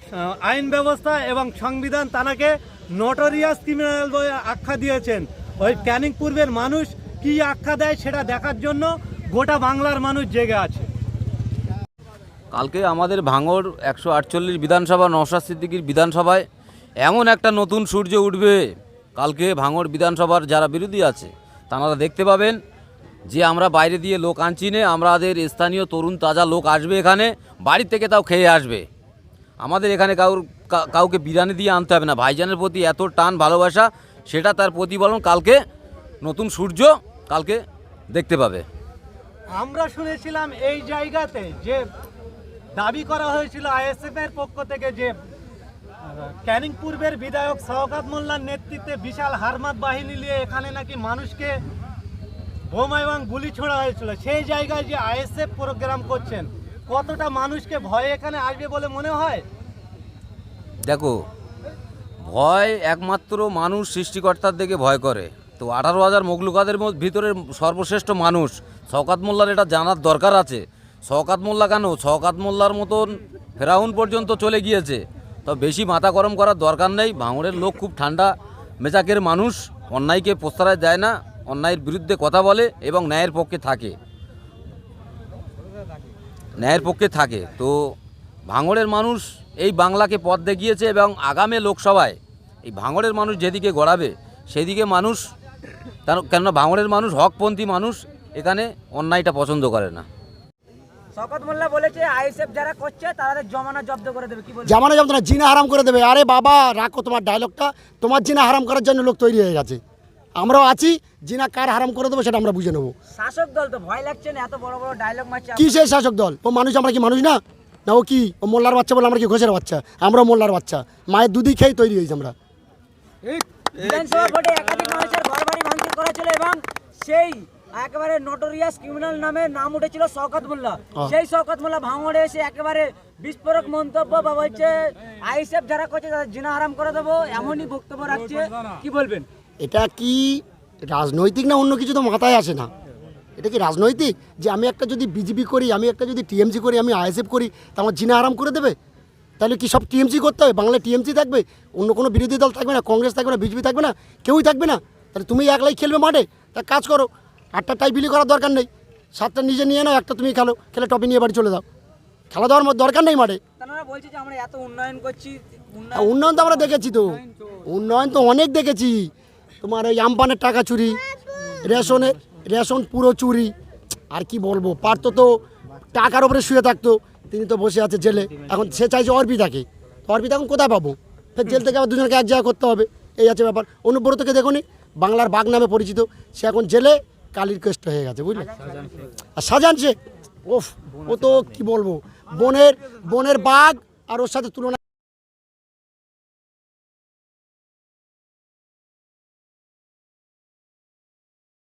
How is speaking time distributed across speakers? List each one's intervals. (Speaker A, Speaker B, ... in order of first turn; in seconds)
Speaker A: 0.2-10.9, 39.5-41.8, 42.8-45.1, 46.1-51.6, 52.7-59.4
Speaker B: 12.5-16.4, 17.0-18.6, 19.2-22.6, 23.3-28.8, 29.6-35.6, 36.2-38.6, 60.9-61.1, 62.2-84.0, 86.6-87.7, 88.5-95.2, 96.1-100.1
Speaker C: 101.2-104.8, 113.2-115.7, 123.9-139.2, 163.6-166.7
Speaker D: 104.7-109.8, 110.4-112.9, 115.5-122.3, 139.6-142.7, 143.4-148.8, 149.4-161.6, 162.3-163.4, 165.9-169.1, 169.6-171.0, 171.6-173.5, 174.1-175.4, 175.9-188.6, 189.4-189.9, 190.5-194.8